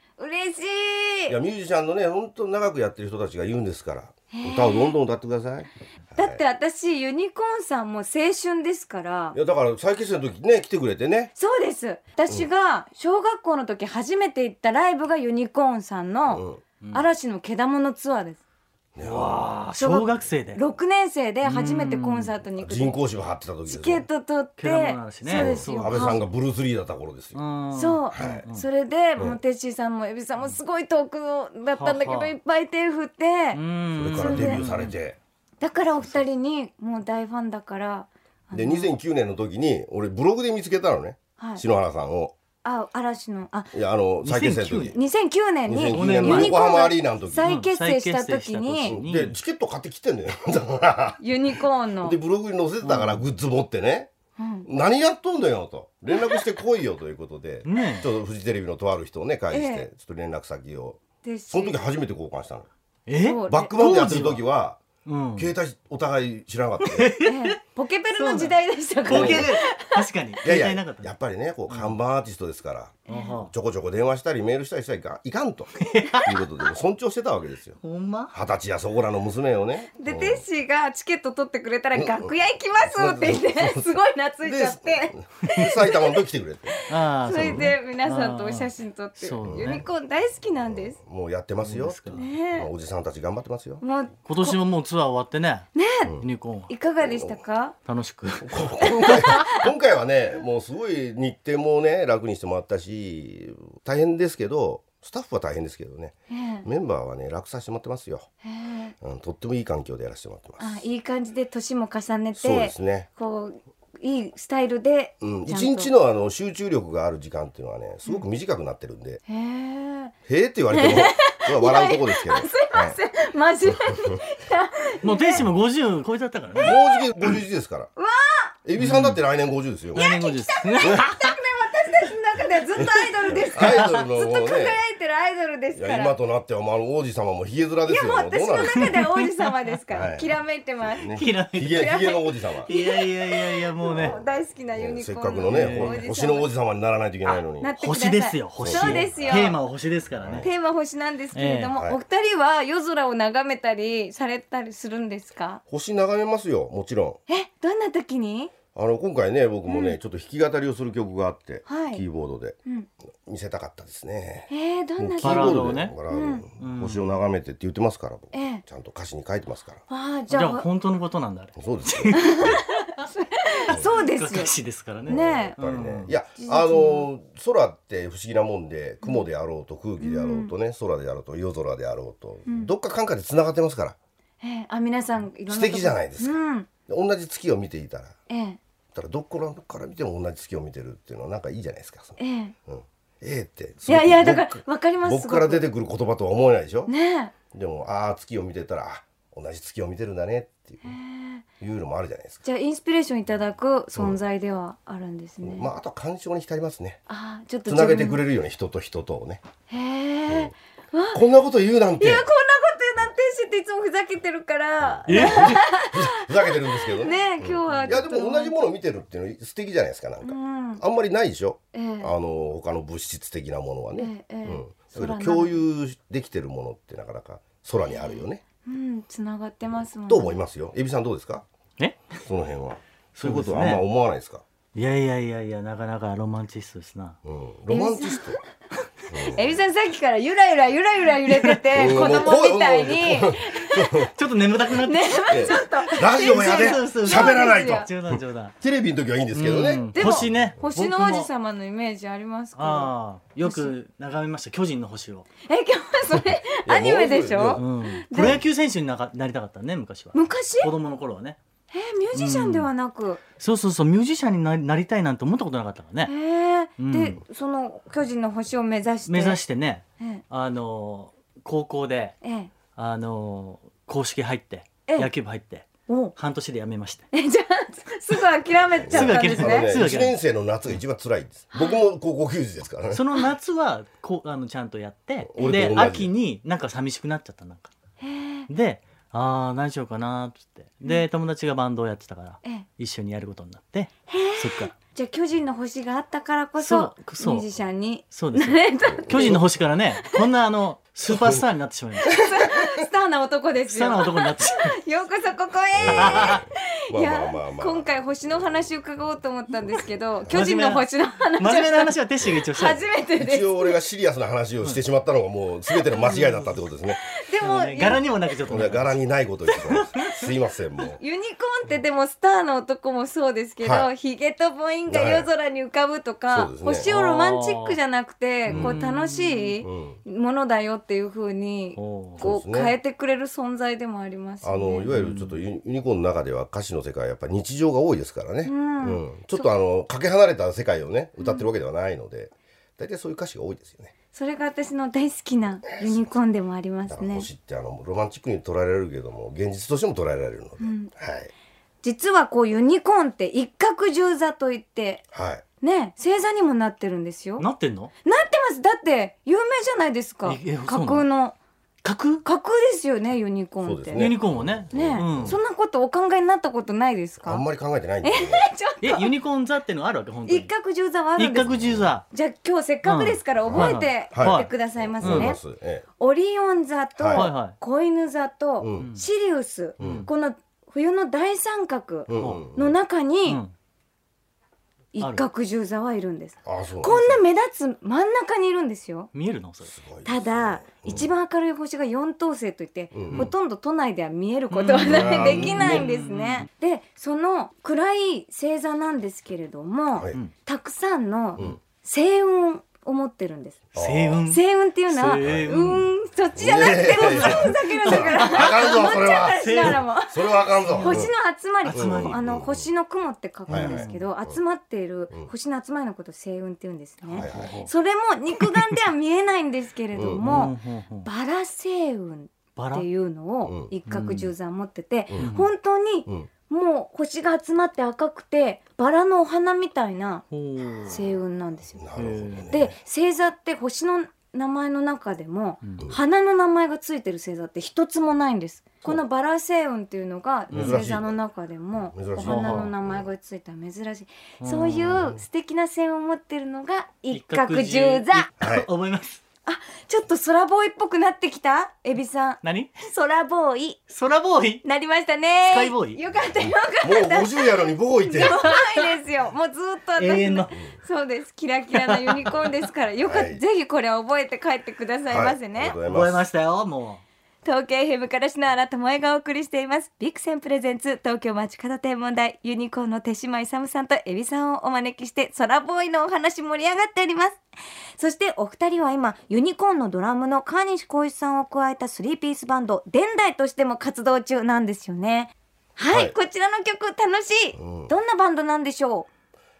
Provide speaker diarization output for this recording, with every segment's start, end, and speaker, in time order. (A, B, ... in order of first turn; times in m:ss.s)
0:00.2-0:01.4 A
0:01.3-0:06.4 B
0:04.3-0:05.0 A
0:06.2-0:09.4 A
0:09.3-0:11.3 B
0:11.4-0:18.4 A
0:16.3-0:16.6 B
0:16.8-0:17.1 C
0:19.0-0:19.4 B
0:19.0-0:20.6 C
0:19.8-0:23.0 A
0:21.4-0:22.3 C
0:22.6-0:24.1 B
0:23.7-0:26.2 A
0:24.6-0:26.3 C
0:25.3-0:27.4 B
0:27.3-0:28.6 C
0:27.7-0:33.6 A
0:28.1-0:28.4 B
0:31.8-0:32.3 C
0:33.5-0:35.0 C
0:34.0-0:35.2 B
0:34.2-0:34.6 A
0:35.6-0:38.9 A
0:38.5-0:42.3 B
0:41.4-0:41.6 A
0:42.6-0:43.7 A
0:43.7-0:45.0 B
0:44.2-0:45.0 C
0:44.9-0:49.0 A
0:45.7-0:47.5 B
0:45.9-0:46.6 C
0:47.4-0:49.4 C
0:48.9-0:51.2 B
0:51.2-0:52.2 A
0:52.0-0:54.1 B
0:52.8-0:53.2 C
0:54.4-0:54.7 A
0:54.6-1:01.0 B
0:56.1-0:56.4 A
0:57.6-0:58.1 C
0:59.5-0:59.9 A
1:01.2-1:01.8 A
1:01.5-1:02.7 B
1:03.1-1:04.4 C
1:03.2-1:03.7 A
1:03.5-1:04.8 B
1:05.0-1:05.5 C
1:05.4-1:07.1 B
1:06.8-1:07.6 C
1:07.2-1:10.0 A
1:08.2-1:11.1 C
1:09.1-1:09.5 B
1:10.4-1:17.8 B
1:11.7-1:12.0 C
1:13.1-1:13.4 A
1:13.1-1:13.5 C
1:15.8-1:16.4 C
1:17.8-1:18.4 C
1:18.3-1:20.4 B
1:20.0-1:26.2 A
1:22.0-1:26.8 B
1:26.7-1:31.0 A
1:26.9-1:29.8 C
1:27.3-1:27.7 B
1:29.4-1:29.9 B
1:30.7-1:33.8 B
1:31.6-1:32.2 C
1:32.2-1:32.7 A
1:33.8-1:34.6 A
1:34.3-1:35.7 C
1:35.8-1:36.2 A
1:36.2-1:36.7 C
1:36.7-1:37.8 A
1:37.0-1:37.4 B
1:37.9-1:39.5 C
1:38.4-1:48.3 B
1:38.8-1:39.6 A
1:46.3-1:46.7 A
1:48.4-1:49.0 A
1:49.0-1:50.8 B
1:50.6-1:55.9 A
1:52.4-1:53.1 B
1:55.2-1:59.2 B
1:59.3-2:00.1 A
2:00.3-2:03.0 B
2:00.7-2:05.4 A
2:03.9-2:04.2 B
2:05.0-2:06.8 C
2:06.6-2:07.9 B
2:06.6-2:07.0 A
2:08.0-2:08.5 A
2:08.6-2:10.0 B
2:08.8-2:09.2 C
2:09.9-2:11.4 C
2:10.0-2:16.2 A
2:10.8-2:11.1 B
2:12.8-2:14.8 B
2:13.6-2:14.0 C
2:15.8-2:19.0 B
2:17.9-2:26.5 A
2:18.8-2:19.5 C
2:19.9-2:20.3 B
2:20.9-2:22.7 B
2:21.1-2:22.0 C
2:22.7-2:24.2 C
2:24.0-2:27.7 B
2:25.5-2:26.0 C
2:27.3-2:30.5 C
2:27.6-2:29.6 A
2:28.6-2:29.6 B
2:30.2-2:30.5 B
2:30.4-2:35.6 A
2:31.3-2:31.7 C
2:35.7-2:37.2 B
2:37.3-2:38.5 A
2:38.7-2:42.6 B
2:39.7-2:40.0 A
2:41.7-2:42.0 A
2:43.2-2:49.8 B
2:44.5-2:46.4 A
2:45.2-2:46.0 C
2:46.6-2:47.2 C
2:48.3-2:48.6 A
2:49.9-2:50.6 A
2:50.3-2:52.6 C
2:51.6-2:52.6 B
2:52.2-2:54.5 A
2:53.7-2:56.1 C
2:55.1-2:55.6 A
2:55.1-3:04.0 B
2:56.4-2:57.1 A
3:00.0-3:00.5 A
3:02.5-3:02.7 A
3:04.4-3:06.7 A
3:05.5-3:08.2 B
3:08.3-3:08.6 A
3:08.9-3:16.9 B
3:12.2-3:12.5 A
3:13.9-3:15.7 A
3:16.9-3:17.3 A
3:17.5-3:21.0 B
3:20.8-3:21.4 A
3:21.6-3:22.4 B
3:22.4-3:25.7 A
3:25.4-3:27.0 B
3:27.1-3:28.2 A
3:27.7-3:29.4 B
3:29.7-3:31.2 A
3:30.3-3:30.5 B
3:31.1-3:32.3 B
3:32.0-3:38.6 A
3:34.8-3:48.4 B
3:35.1-3:35.6 C
3:37.7-3:37.9 C
3:40.2-3:40.8 A
3:41.7-3:42.1 A
3:44.0-3:45.6 A
3:47.9-3:50.4 A
3:50.1-3:51.4 B
3:51.8-3:52.1 C
3:52.2-3:54.4 B
3:53.2-3:53.8 C
3:54.8-3:57.2 C
3:57.2-3:58.4 B
3:57.7-3:58.4 A
3:59.1-3:59.6 B
3:59.3-4:04.1 A
4:01.3-4:01.6 C
4:01.7-4:04.1 B
4:04.2-4:08.6 C
4:04.8-4:07.9 A
4:05.3-4:10.5 B
4:09.3-4:11.3 C
4:09.9-4:13.8 A
4:12.6-4:15.3 C
4:15.5-4:18.4 A
4:16.6-4:17.6 B
4:17.6-4:21.4 C
4:18.2-4:18.4 B
4:20.1-4:20.7 A
4:21.7-4:23.2 A
4:22.1-4:22.7 C
4:23.4-4:26.1 C
4:26.1-4:29.4 A
4:26.8-4:27.2 C
4:29.1-4:32.2 C
4:32.2-4:32.5 A
4:32.8-4:37.1 C
4:35.9-4:36.1 A
4:37.1-4:39.8 A
4:38.8-4:43.0 B
4:38.9-4:40.2 C
4:41.5-4:41.8 A
4:42.9-4:47.7 C
4:45.3-4:46.1 B
4:48.0-4:48.5 A
4:48.5-4:54.7 C
4:54.1-4:59.4 A
4:56.6-4:57.5 C
4:58.1-5:02.2 C
4:58.9-4:59.6 B
5:01.1-5:01.4 B
5:02.0-5:11.9 A
5:03.7-5:04.8 C
5:05.8-5:08.5 B
5:05.9-5:06.4 C
5:10.3-5:12.8 C
5:12.5-5:13.8 A
5:13.2-5:17.0 B
5:16.0-5:16.6 C
5:17.0-5:18.0 A
5:17.4-5:20.2 C
5:18.5-5:21.0 B
5:20.9-5:34.9 A
5:23.6-5:23.9 B
5:24.9-5:25.3 B
5:26.3-5:26.9 B
5:26.8-5:27.8 C
5:28.5-5:29.6 C
5:28.5-5:28.8 B
5:29.6-5:30.0 B
5:31.8-5:32.2 C
5:32.2-5:32.8 B
5:34.4-5:43.9 B
5:34.9-5:35.4 C
5:38.4-5:39.5 A
5:41.2-5:41.5 A
5:44.1-5:47.3 A
5:45.7-5:46.1 B
5:46.9-5:51.3 B
5:50.6-5:50.9 A
5:51.8-5:55.0 A
5:55.1-5:55.4 B
5:55.6-5:57.4 A
5:57.4-5:57.9 C
5:58.0-6:01.4 A
6:00.2-6:01.1 C
6:01.8-6:02.2 C
6:02.2-6:04.1 A
6:03.6-6:05.4 B
6:03.9-6:05.4 C
6:04.7-6:07.4 A
6:07.2-6:08.5 B
6:08.0-6:09.1 A
6:08.8-6:10.5 C
6:10.3-6:11.5 A
6:11.2-6:12.1 C
6:11.4-6:11.9 B
6:12.1-6:15.4 A
6:12.8-6:14.5 C
6:13.5-6:15.8 B
6:15.0-6:15.4 C
6:16.0-6:23.4 A
6:17.0-6:17.3 B
6:17.1-6:17.6 C
6:18.6-6:18.9 B
6:18.8-6:19.0 C
6:19.8-6:20.1 C
6:19.8-6:20.1 B
6:22.1-6:22.8 B
6:22.2-6:22.4 C
6:23.3-6:23.5 C
6:24.9-6:29.1 A
6:25.0-6:25.2 C
6:26.4-6:27.2 B
6:29.1-6:29.7 C
6:29.6-6:31.1 B
6:30.0-6:43.6 A
6:32.9-6:33.3 B
6:34.5-6:36.5 C
6:34.8-6:35.9 B
6:39.9-6:40.2 B
6:43.7-6:44.2 B
6:43.8-6:45.9 C
6:44.3-7:10.2 A
6:45.2-6:45.6 B
6:46.4-6:51.1 B
6:46.9-6:49.8 C
6:50.6-6:51.1 C
6:51.6-6:52.2 C
6:51.7-6:52.7 B
6:53.5-6:54.4 B
6:53.5-6:54.0 C
6:57.1-6:57.6 B
6:57.1-6:57.7 C
6:58.4-6:58.8 C
6:59.9-7:00.5 B
7:00.2-7:01.1 C
7:02.6-7:02.9 C
7:03.4-7:03.7 B
7:03.9-7:04.3 C
7:05.2-7:05.5 C
7:10.3-7:11.0 C
7:10.9-7:11.8 A
7:11.7-7:12.8 B
7:12.0-7:12.6 C
7:12.5-7:28.3 A
7:20.5-7:20.8 C
7:20.5-7:21.2 B
7:21.8-7:23.1 B
7:22.2-7:22.7 C
7:24.4-7:25.1 C
7:27.1-7:29.2 C
7:28.4-7:28.7 B
7:29.5-7:33.8 A
7:32.4-7:32.8 C
7:33.9-7:34.6 C
7:34.6-7:45.8 A
7:35.5-7:36.0 C
7:36.2-7:38.5 B
7:38.2-7:38.8 C
7:40.0-7:40.6 C
7:41.7-7:42.5 C
7:43.0-7:43.4 B
7:45.1-7:46.2 B
7:45.8-7:47.0 C
7:47.4-7:57.4 A
7:58.0-8:09.1 A
8:05.9-8:06.2 B
8:07.6-8:07.9 B